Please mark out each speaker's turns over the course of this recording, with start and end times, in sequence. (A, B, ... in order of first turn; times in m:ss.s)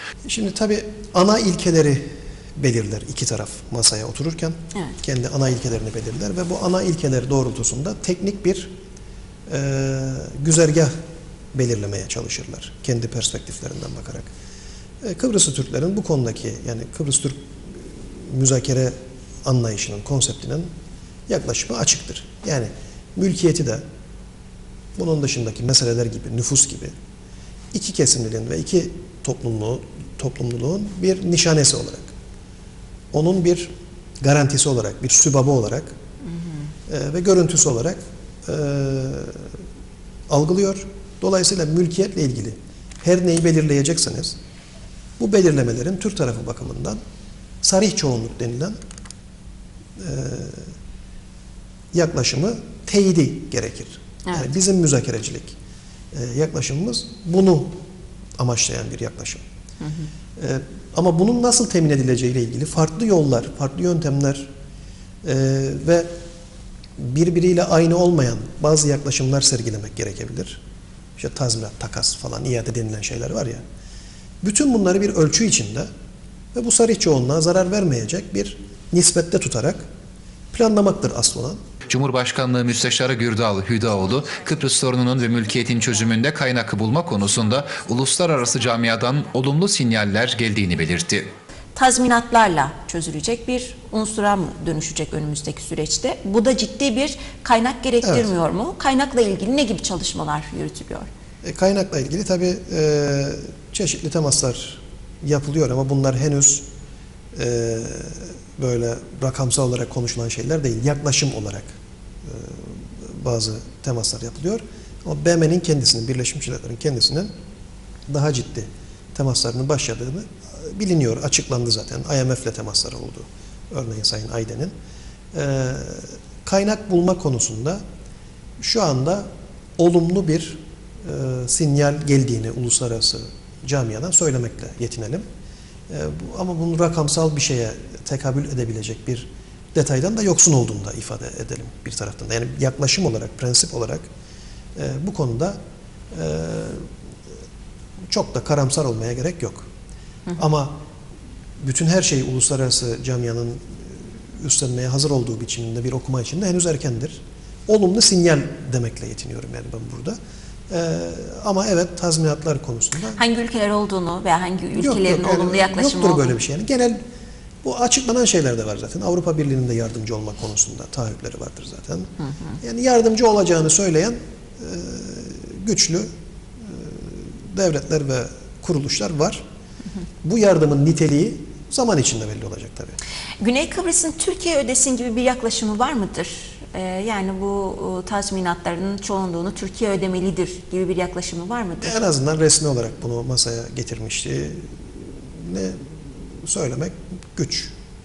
0:00.3-0:08.8 A
0:09.5-0:10.9 A
0:11.5-0:14.3 A
0:15.0-0:20.7 A
0:21.3-0:23.8 A
0:25.0-0:26.9 A
0:27.7-0:32.1 A
0:33.1-0:35.9 A
0:36.9-0:39.5 A
0:40.3-0:44.4 A
0:45.2-0:47.0 A
0:47.6-0:48.8 A
0:50.0-0:50.7 A
0:51.9-0:55.6 A
0:54.2-0:54.5 B
0:56.1-0:57.8 A
0:58.4-0:59.4 A
0:59.8-1:00.1 B
1:00.4-1:04.5 A
1:05.2-1:06.1 A
1:07.0-1:10.6 A
1:11.2-1:13.6 A
1:14.4-1:15.9 A
1:16.5-1:19.8 A
1:20.5-1:21.6 A
1:21.9-1:31.3 C
1:31.8-1:41.1 B
1:38.0-1:38.3 A
1:41.4-1:46.7 A
1:47.3-1:57.3 A
1:58.1-2:04.7 A
2:05.3-2:07.8 A
2:08.6-2:09.3 A
2:09.8-2:15.2 A
2:15.9-2:24.1 A
2:24.8-2:25.6 A
2:26.1-2:26.9 A
2:28.1-2:29.7 A
2:30.4-2:30.8 A
2:31.6-2:40.2 A
2:40.7-2:43.2 A
2:43.1-2:46.4 B
2:44.8-2:47.0 A
2:47.6-2:52.1 A
2:52.6-2:56.1 A
2:56.6-2:59.4 A
3:00.2-3:03.0 A
3:03.4-3:12.0 B
3:11.8-3:17.7 A